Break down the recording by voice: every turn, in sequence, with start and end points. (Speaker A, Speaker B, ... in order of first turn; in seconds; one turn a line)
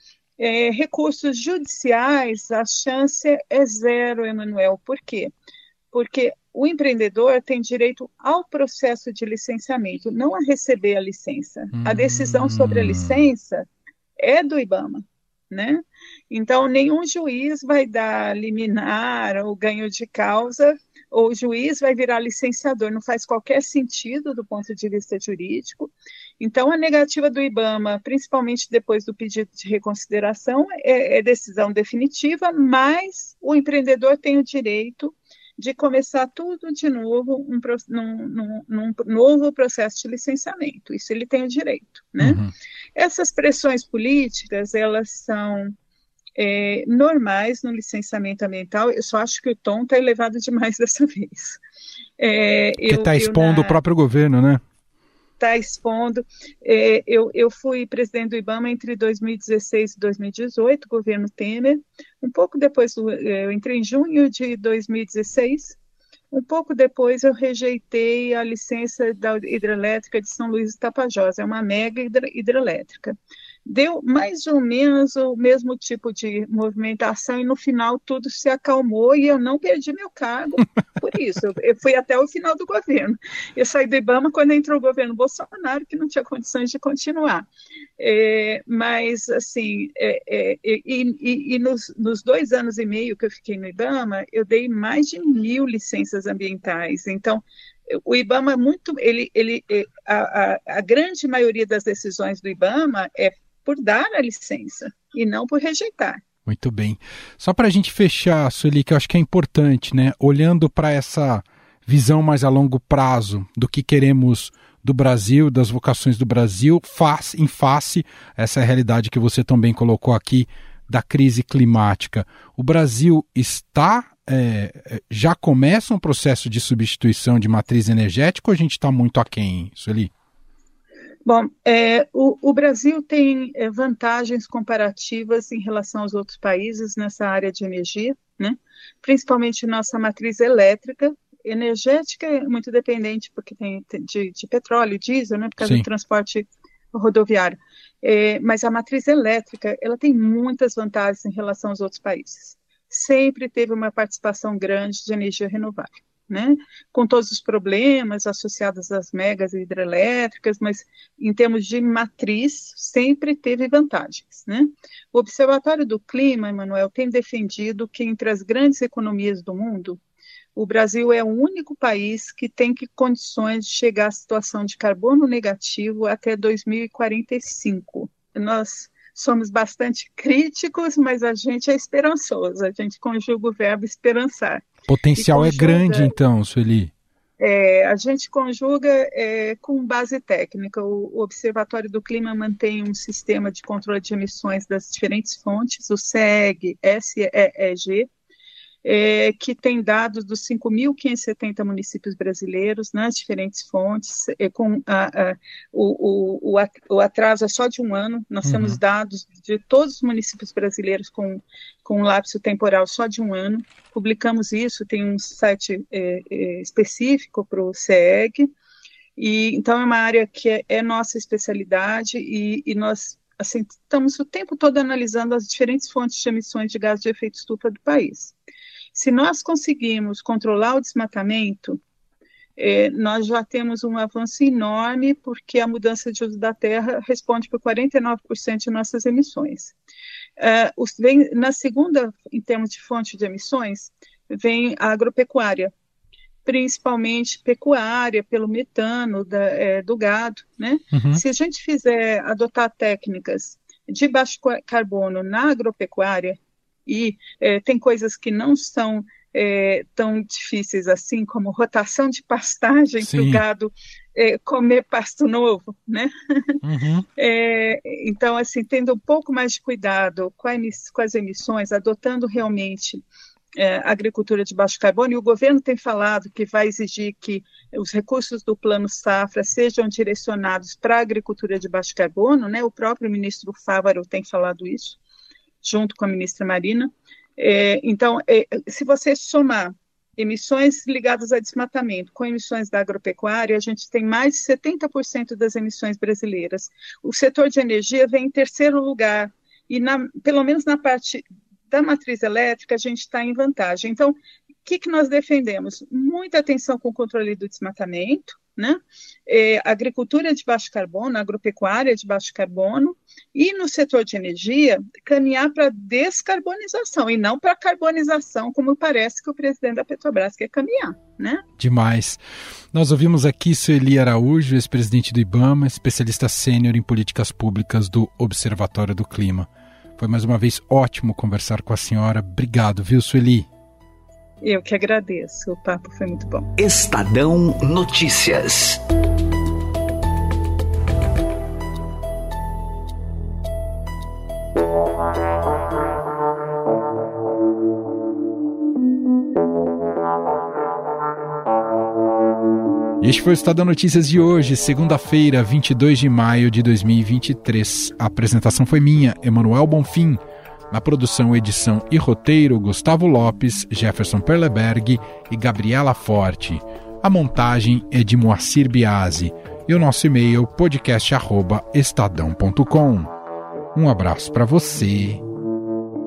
Speaker A: 0.4-5.3
Speaker A: 5.9-13.7
Speaker B: 11.8-13.2
Speaker A: 14.2-42.4
Speaker B: 42.2-42.5
Speaker A: 43.0-45.7
Speaker A: 46.4-51.6
Speaker A: 52.2-53.8
Speaker B: 52.9-54.6
Speaker A: 55.4-65.8
Speaker A: 66.3-87.5
Speaker A: 88.0-106.2
Speaker B: 106.5-130.1
Speaker A: 131.2-170.0
Speaker B: 145.6-145.9
Speaker A: 170.6-184.7
Speaker B: 184.9-186.9
Speaker A: 185.2-186.1
Speaker A: 187.4-198.1
Speaker A: 198.8-218.5
Speaker B: 208.4-208.8
Speaker A: 219.2-228.3
Speaker A: 228.9-231.8
Speaker A: 232.6-239.7
Speaker A: 240.4-245.7
Speaker A: 246.4-266.6
Speaker B: 250.9-251.2
Speaker B: 263.0-263.4
Speaker B: 266.6-267.1
Speaker A: 267.2-273.0
Speaker A: 273.6-285.0
Speaker A: 285.6-321.4
Speaker B: 321.6-322.2
Speaker B: 322.7-333.5
Speaker A: 334.4-336.5
Speaker C: 336.6-338.8
Speaker B: 353.0-373.1
Speaker B: 373.7-375.2